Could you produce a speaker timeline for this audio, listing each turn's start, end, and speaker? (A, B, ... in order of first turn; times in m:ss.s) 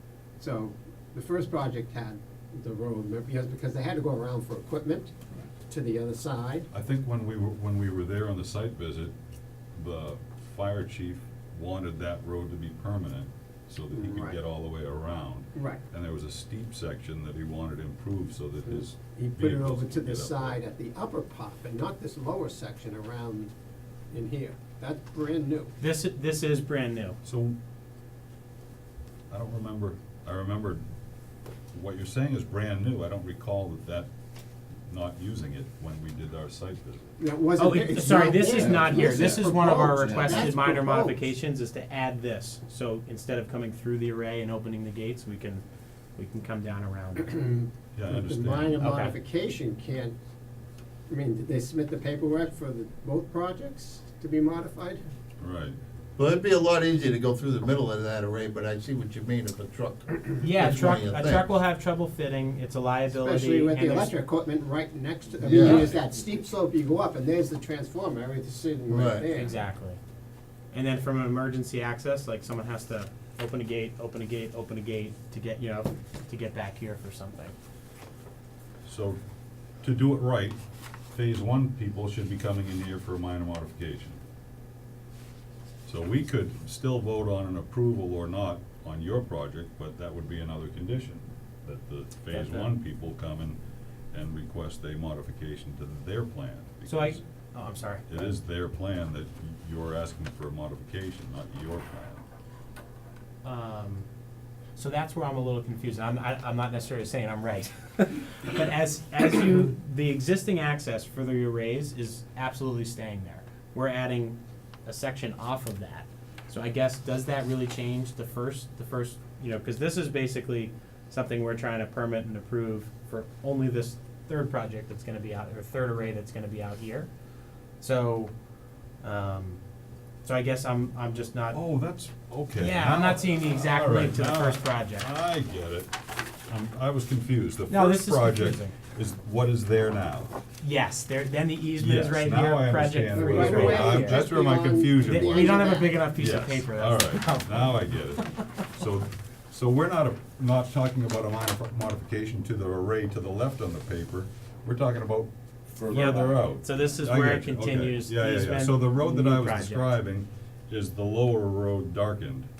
0:00.4-0:05.1 A
0:05.7-0:06.7 A
0:06.7-0:09.1 B
0:09.7-0:20.6 B
0:13.9-0:14.4 A
0:15.5-0:15.8 A
0:18.7-0:23.5 A
0:24.1-0:25.7 A
0:25.8-0:27.2 C
0:27.2-0:27.6 B
0:29.3-0:30.8 B
0:31.7-0:34.1 B
0:34.9-0:37.2 B
0:37.2-0:41.2 A
0:37.6-0:45.6 C
0:46.2-0:47.4 C
0:47.2-0:50.2 A
0:47.9-0:49.0 B
0:48.8-0:49.1 C
0:51.1-0:55.0 A
0:55.4-0:55.8 B
0:56.2-1:01.4 D
1:00.4-1:04.1 C
1:03.1-1:09.6 A
1:05.4-1:06.0 D
1:05.5-1:05.9 C
1:08.9-1:09.2 D
1:09.3-1:10.0 C
1:10.7-1:17.5 C
1:18.8-1:19.2 B
1:19.8-1:20.6 B
1:21.1-1:24.2 B
1:25.8-1:33.6 B
1:32.3-1:32.7 C
1:34.1-1:37.2 B
1:36.9-1:38.4 C
1:38.1-1:42.2 B
1:43.4-1:44.0 C
1:44.8-2:07.1 C
2:07.8-2:08.3 C
2:09.0-2:09.6 C
2:10.2-2:11.6 C
2:11.5-2:20.3 B
2:12.6-2:15.1 C
2:17.7-2:18.8 C
2:20.6-2:24.2 C
2:21.8-2:35.3 B
2:23.1-2:26.0 A
2:25.0-2:27.9 C
2:35.8-2:42.5 B
2:35.9-2:36.2 D
2:35.9-2:39.9 C